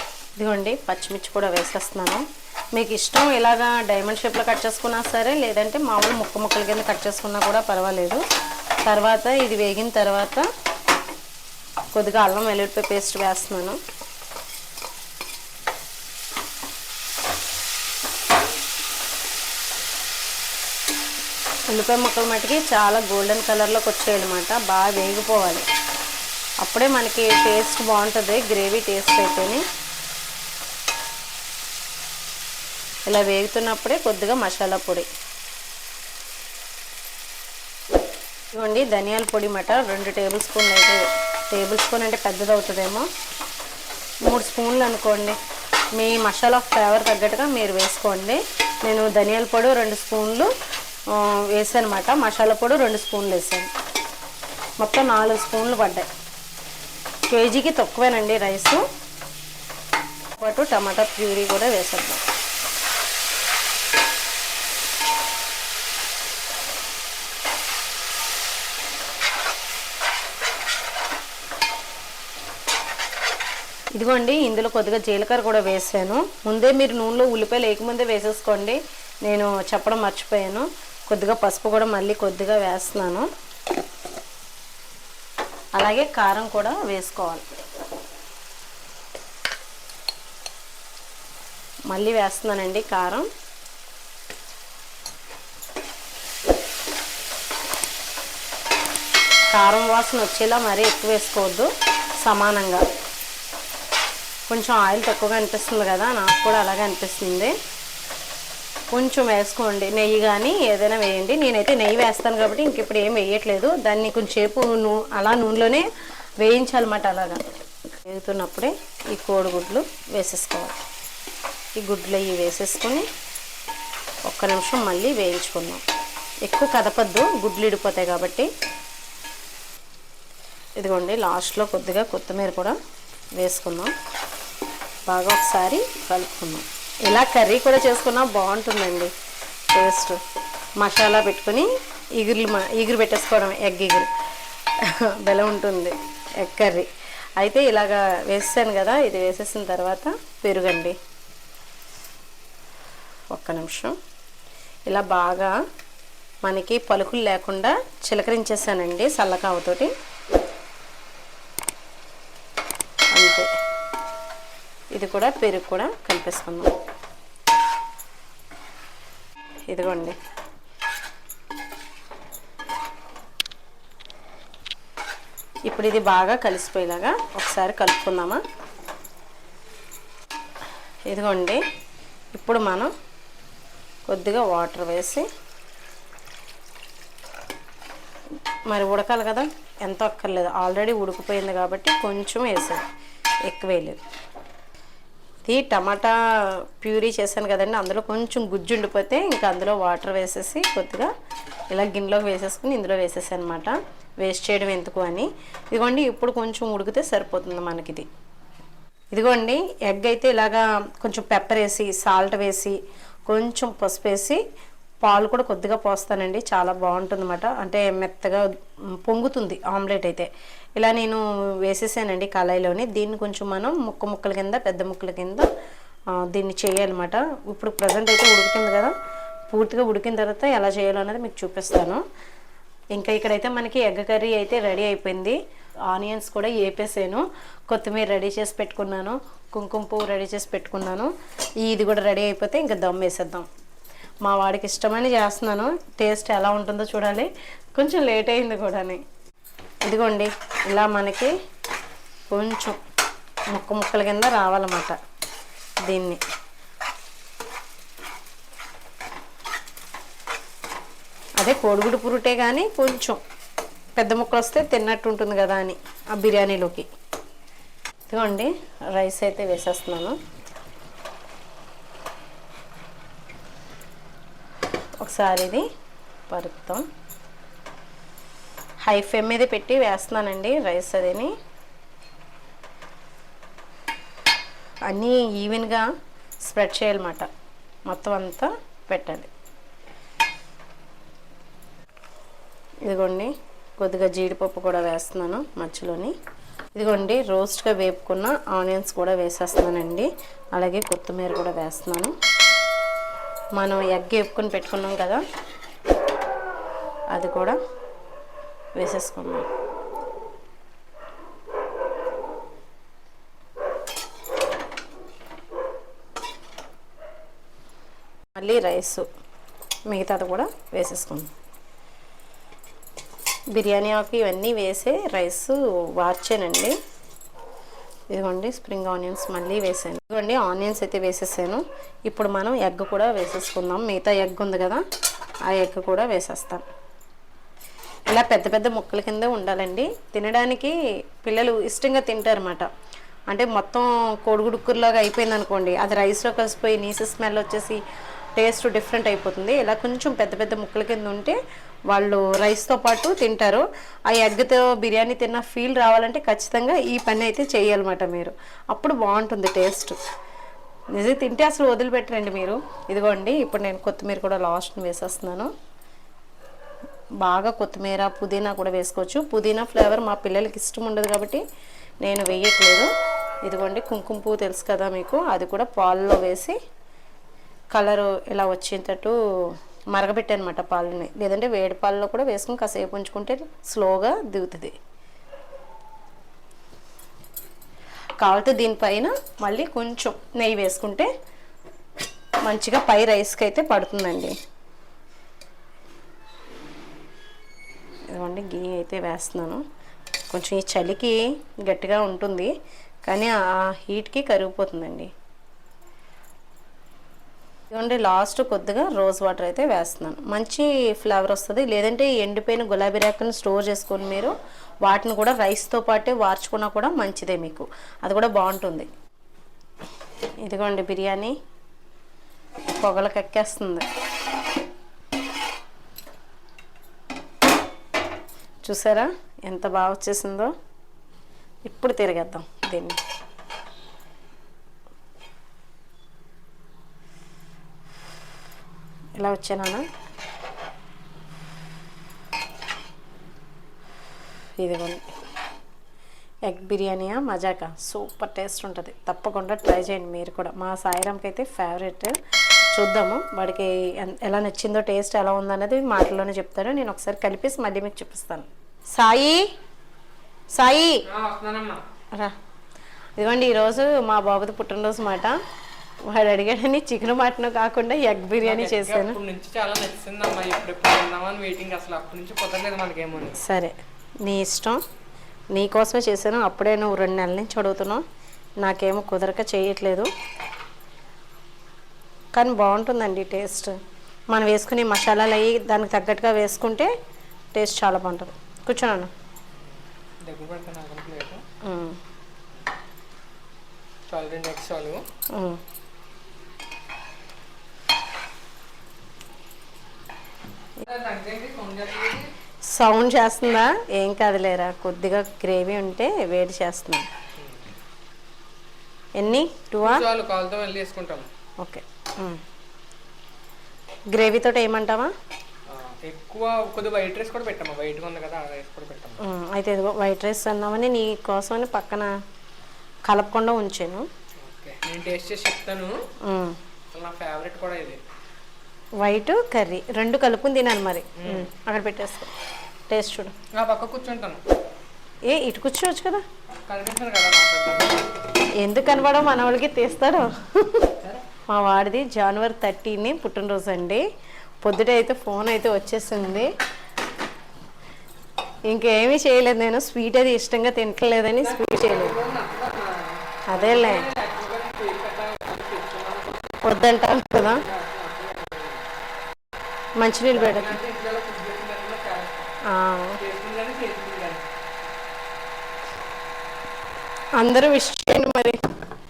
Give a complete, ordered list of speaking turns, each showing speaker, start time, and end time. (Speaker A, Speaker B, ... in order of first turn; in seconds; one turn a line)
Speaker A: 0.4-8.2
Speaker A: 8.8-10.4
Speaker A: 11.9-13.8
Speaker A: 21.7-25.7
Speaker A: 26.6-29.6
Speaker A: 33.1-35.1
Speaker A: 38.5-43.1
Speaker A: 44.3-45.4
Speaker A: 46.0-50.5
Speaker A: 51.1-53.7
Speaker A: 54.8-56.1
Speaker A: 57.3-58.8
Speaker A: 60.4-62.2
Speaker A: 74.0-83.3
Speaker A: 85.8-87.5
Speaker A: 91.9-93.3
Speaker A: 99.5-101.7
Speaker A: 102.2-102.8
Speaker A: 104.5-107.5
Speaker A: 108.9-115.9
Speaker A: 116.4-117.5
Speaker A: 118.0-120.8
Speaker A: 121.8-123.0
Speaker A: 124.3-125.8
Speaker A: 126.5-128.5
Speaker A: 130.8-132.8
Speaker A: 133.4-133.9
Speaker A: 135.1-139.1
Speaker A: 139.7-140.2
Speaker A: 140.8-141.7
Speaker A: 142.2-144.1
Speaker A: 144.9-146.9
Speaker A: 147.4-150.9
Speaker A: 153.3-154.0
Speaker A: 154.9-155.5
Speaker A: 156.4-159.9
Speaker A: 163.1-163.5
Speaker A: 164.9-166.7
Speaker A: 169.7-170.2
Speaker A: 175.7-178.4
Speaker A: 181.1-181.6
Speaker A: 182.3-182.9
Speaker A: 184.1-185.3
Speaker A: 188.7-192.8
Speaker A: 193.5-194.0
Speaker A: 195.5-201.1
Speaker A: 201.7-208.1
Speaker A: 209.1-212.8
Speaker A: 213.3-214.4
Speaker A: 215.0-218.5
Speaker A: 219.1-225.5
Speaker A: 226.3-228.9
Speaker A: 229.5-232.0
Speaker A: 232.9-235.4
Speaker A: 235.9-241.1
Speaker A: 241.6-243.5
Speaker A: 244.2-249.0
Speaker A: 249.8-251.3
Speaker A: 252.3-252.8
Speaker A: 253.5-254.9
Speaker A: 255.9-256.2
Speaker A: 261.4-263.2
Speaker A: 264.0-266.9
Speaker A: 268.1-270.2
Speaker A: 275.0-275.6
Speaker A: 276.3-276.8
Speaker A: 278.9-281.3
Speaker A: 284.9-285.9
Speaker A: 286.4-287.3
Speaker A: 287.9-289.3
Speaker A: 292.9-296.1
Speaker A: 296.8-302.1
Speaker A: 303.6-305.2
Speaker A: 307.1-307.6
Speaker A: 308.8-309.5
Speaker A: 318.4-319.1
Speaker A: 319.9-321.3
Speaker A: 323.5-326.8
Speaker A: 328.1-334.8
Speaker A: 335.5-336.7
Speaker A: 338.1-342.7
Speaker A: 343.3-347.8
Speaker A: 348.4-351.4
Speaker A: 351.9-360.0
Speaker A: 361.0-365.5
Speaker A: 367.2-371.4
Speaker A: 372.0-372.9
Speaker A: 373.4-376.6
Speaker A: 377.7-379.1
Speaker A: 379.9-384.7
Speaker A: 388.2-391.1
Speaker A: 392.4-394.4
Speaker A: 398.1-399.6
Speaker A: 400.3-402.5
Speaker A: 403.1-405.1
Speaker A: 407.7-418.9
Speaker A: 420.4-421.3
Speaker A: 422.8-423.9
Speaker A: 428.6-430.5
Speaker A: 431.7-433.0
Speaker A: 439.2-439.8
Speaker A: 444.6-445.0
Speaker A: 446.5-452.1
Speaker A: 452.7-459.4
Speaker A: 460.5-461.0
Speaker B: 461.1-461.8
Speaker A: 463.2-465.4
Speaker A: 466.1-469.2
Speaker B: 468.4-473.4
Speaker A: 473.4-473.7
Speaker A: 474.2-474.8
Speaker A: 475.5-478.0
Speaker A: 478.6-480.1
Speaker A: 482.4-483.7
Speaker A: 484.3-486.9
Speaker A: 487.5-489.1
Speaker B: 490.2-491.4
Speaker A: 491.6-492.0
Speaker B: 494.1-495.0
Speaker A: 495.3-495.6
Speaker B: 500.8-502.3
Speaker A: 502.7-507.1
Speaker B: 507.4-507.7
Speaker A: 509.2-510.0
Speaker B: 509.8-511.3
Speaker A: 511.6-512.4
Speaker A: 514.1-515.1
Speaker B: 515.7-519.2
Speaker A: 519.2-522.1
Speaker A: 523.1-524.0
Speaker B: 524.4-526.0
Speaker A: 526.2-526.6
Speaker B: 526.9-528.0
Speaker A: 529.0-532.3
Speaker B: 531.2-531.5
Speaker A: 532.9-533.3
Speaker B: 533.5-534.4
Speaker A: 535.3-536.2
Speaker B: 536.7-538.0
Speaker A: 538.6-540.9
Speaker A: 541.5-544.0
Speaker A: 544.6-546.5
Speaker A: 548.7-552.2
Speaker B: 551.4-558.8
Speaker A: 553.5-554.1
Speaker A: 556.6-557.6
Speaker A: 560.0-560.8
Speaker B: 560.3-562.5
Speaker A: 562.7-563.2
Speaker B: 563.2-564.4
Speaker A: 567.4-568.6